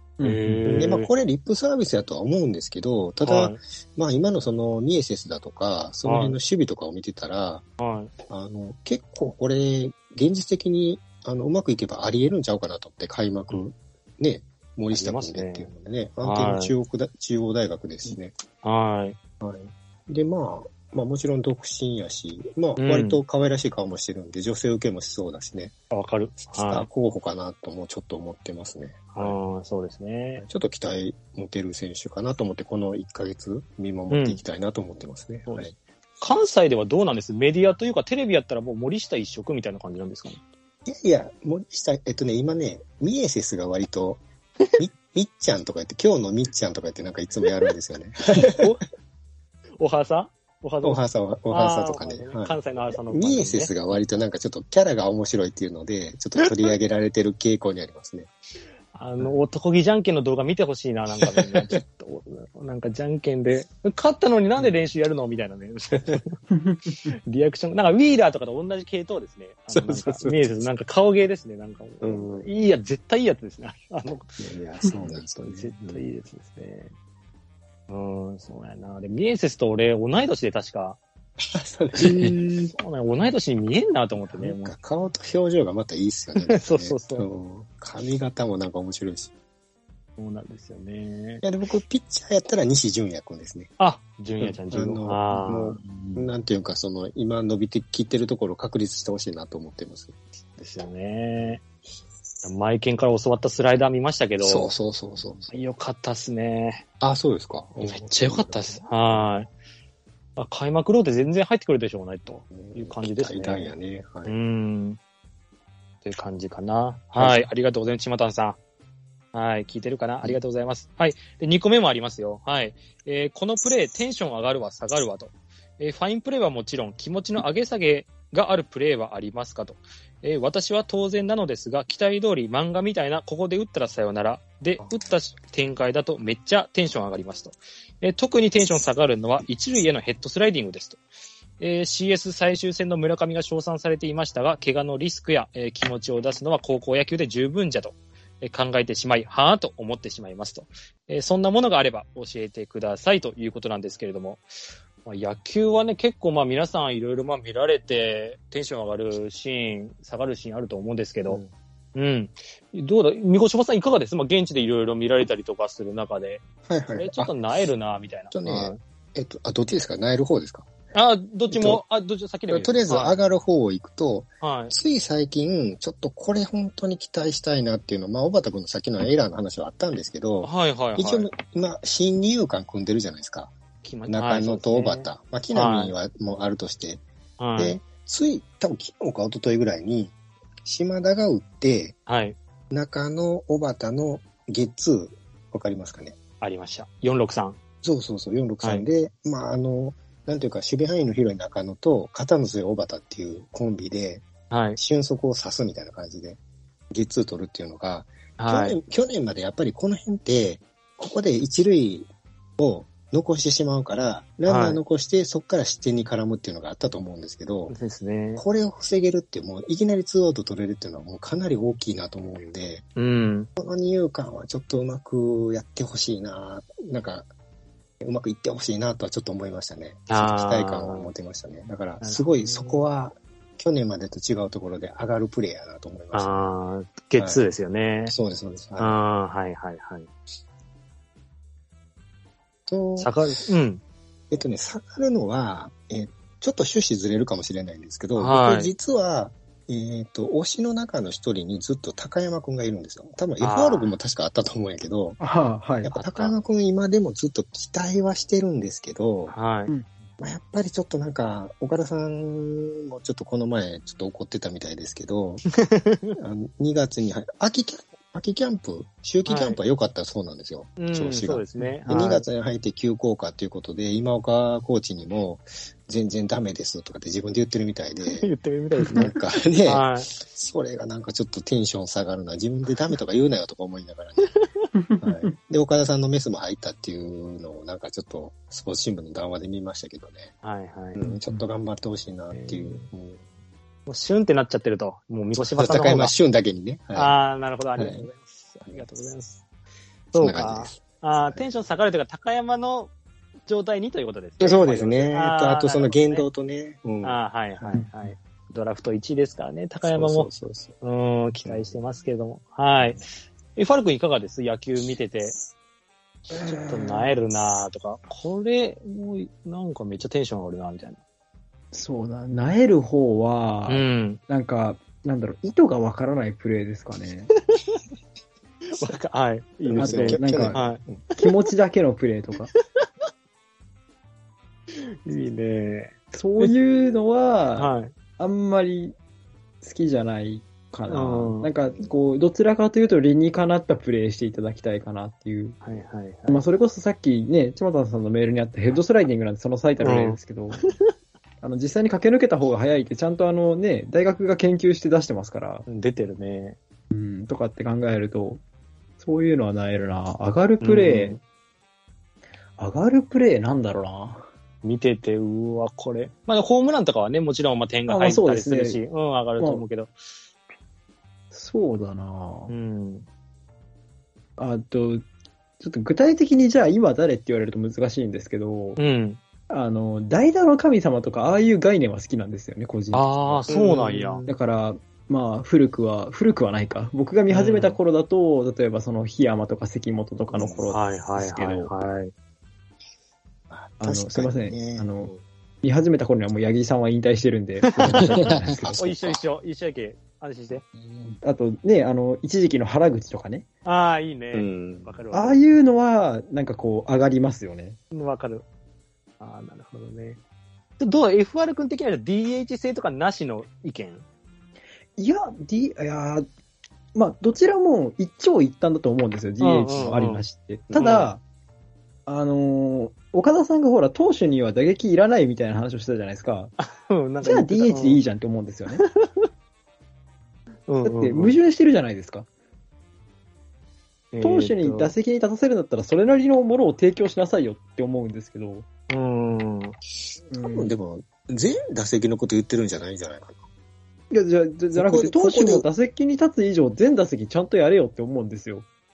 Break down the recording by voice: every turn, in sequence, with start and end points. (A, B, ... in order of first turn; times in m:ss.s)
0:00.2-0:00.9 A
0:00.2-0:01.1 B
0:00.7-0:07.6 C
0:03.2-0:03.6 B
0:06.0-0:06.4 B
0:07.8-0:08.1 B
0:08.3-0:18.3 C
0:14.9-0:15.7 B
0:16.2-0:16.7 B
0:18.6-0:19.2 B
0:19.4-0:25.7 C
0:22.8-0:23.2 B
0:25.9-0:26.9 B
0:26.4-0:29.3 C
0:29.1-0:30.4 B
0:30.4-0:35.7 C
0:34.1-0:34.4 B
0:35.4-0:40.4 B
0:40.8-0:44.2 C
0:44.8-0:48.7 C
0:48.4-0:48.8 B
0:49.8-0:53.7 B
0:50.8-0:58.3 C
0:58.9-1:06.4 B
1:01.2-1:01.8 C
1:06.5-1:06.9 A
1:07.2-1:16.9 B
1:09.7-1:10.7 C
1:12.0-1:12.5 C
1:14.4-1:16.0 C
1:17.9-1:21.0 B
1:21.4-1:22.7 C
1:22.0-1:24.7 B
1:24.3-1:29.3 C
1:26.4-1:27.2 B
1:30.2-1:31.4 B
1:31.4-1:33.7 C
1:33.8-1:36.3 B
1:34.4-1:40.1 C
1:40.6-1:41.6 B
1:42.4-1:44.7 B
1:44.4-1:45.5 C
1:45.5-1:46.8 B
1:47.0-1:48.9 C
1:47.8-1:49.5 B
1:50.4-1:53.7 B
1:52.5-1:54.3 C
1:54.2-1:55.0 B
1:56.0-1:58.6 B
1:57.1-1:57.4 C
1:59.3-2:21.0 B
2:21.6-2:34.4 B
2:35.0-2:41.4 B
2:41.9-2:48.8 B
2:46.6-2:47.3 C
2:48.3-2:50.7 C
2:50.9-2:53.2 B
2:51.5-2:51.8 C
2:52.5-3:03.5 C
2:54.4-2:54.7 B
3:00.4-3:01.3 B
3:03.8-3:05.9 B
3:04.1-3:07.0 C
3:07.4-3:07.8 B
3:07.6-3:10.1 C
3:10.6-3:12.0 C
3:12.1-3:12.4 B
3:12.7-3:16.2 C
3:16.4-3:17.6 B
3:17.8-3:26.4 C
3:24.5-3:24.8 B
3:26.9-3:37.8 C
3:28.4-3:28.8 B
3:34.5-3:34.8 B
3:37.7-3:38.4 B
3:38.4-3:42.8 C
3:43.0-3:43.5 B
3:43.6-3:47.3 C
3:48.0-3:56.4 C
3:50.1-3:51.1 B
3:52.0-3:52.8 B
3:56.1-3:58.1 B
3:57.2-3:57.4 C
3:58.1-3:59.0 C
3:58.8-4:00.1 B
4:02.7-4:03.1 C
4:03.0-4:03.8 B
4:04.3-4:15.2 C
4:08.2-4:08.7 B
4:13.4-4:14.0 B
4:15.2-4:15.9 A
4:15.8-4:19.3 C
4:16.0-4:16.3 B
4:19.3-4:19.7 B
4:20.2-4:25.4 C
4:25.6-4:26.2 B
4:26.2-4:38.3 C
4:29.2-4:29.6 B
4:30.8-4:32.3 B
4:38.0-4:40.1 B
4:38.9-4:44.3 C
4:44.3-4:44.7 B
4:44.8-4:45.1 A
4:45.0-4:50.3 C
4:50.4-4:51.0 B
4:51.0-4:53.2 C
4:52.3-4:52.9 B
4:53.9-4:56.1 B
4:55.4-4:57.1 C
4:56.9-4:59.4 B
4:57.8-4:58.1 C
5:00.1-5:02.9 B
5:00.2-5:01.5 C
5:03.5-5:06.3 B
5:04.4-5:07.8 C
5:07.0-5:10.3 B
5:07.7-5:08.0 A
5:09.8-5:10.7 C
5:10.8-5:15.4 B
5:11.4-5:11.7 C
5:16.3-5:21.0 B
5:21.7-5:27.3 A
5:23.7-5:24.2 B
5:28.7-5:30.8 B
5:29.6-5:31.0 C
5:29.8-5:32.5 A
5:32.6-5:32.8 B
5:34.8-5:36.5 B
5:36.1-5:38.9 A
5:37.6-5:37.9 B
5:39.6-5:45.6 A
5:40.9-5:41.5 B
5:45.6-5:46.4 B
5:46.3-5:50.6 A
5:49.8-5:50.7 B
5:51.4-5:55.6 A
5:55.7-5:56.6 B
5:56.9-5:58.4 A
5:59.0-6:01.2 A
6:00.6-6:01.2 B
6:02.6-6:04.2 A
6:04.6-6:09.9 B
6:07.9-6:08.8 A
6:09.4-6:09.6 A
6:11.3-6:12.5 A
6:12.5-6:13.1 B
6:14.4-6:15.0 A
6:15.6-6:18.8 A
6:18.8-6:19.2 B
6:19.5-6:23.5 A
6:22.9-6:24.2 B
6:23.5-6:24.4 C
6:24.2-6:31.7 A
6:27.3-6:27.8 B
6:30.3-6:30.6 C
6:30.7-6:32.1 B
6:33.5-6:35.1 C
6:33.8-6:38.9 A
6:37.9-6:39.2 C
6:38.8-6:40.6 B
6:41.2-6:43.4 A
6:43.6-6:45.4 B
6:44.3-6:44.9 C
6:45.1-6:47.8 A
6:47.9-6:48.4 B
6:49.2-6:50.2 B
6:50.8-6:54.0 B
6:55.0-6:56.3 A
6:56.9-7:01.2 A
6:59.4-7:00.2 B
7:00.7-7:01.1 B
7:02.1-7:06.5 A
7:06.6-7:08.0 B
7:07.2-7:08.8 A
7:08.8-7:09.2 B
7:10.7-7:11.4 B
7:10.8-7:12.3 A
7:14.1-7:14.9 B
7:14.2-7:18.6 A
7:18.9-7:19.8 B
7:20.3-7:20.7 A
7:20.4-7:23.4 C
7:24.1-7:28.6 A
7:24.7-7:25.6 C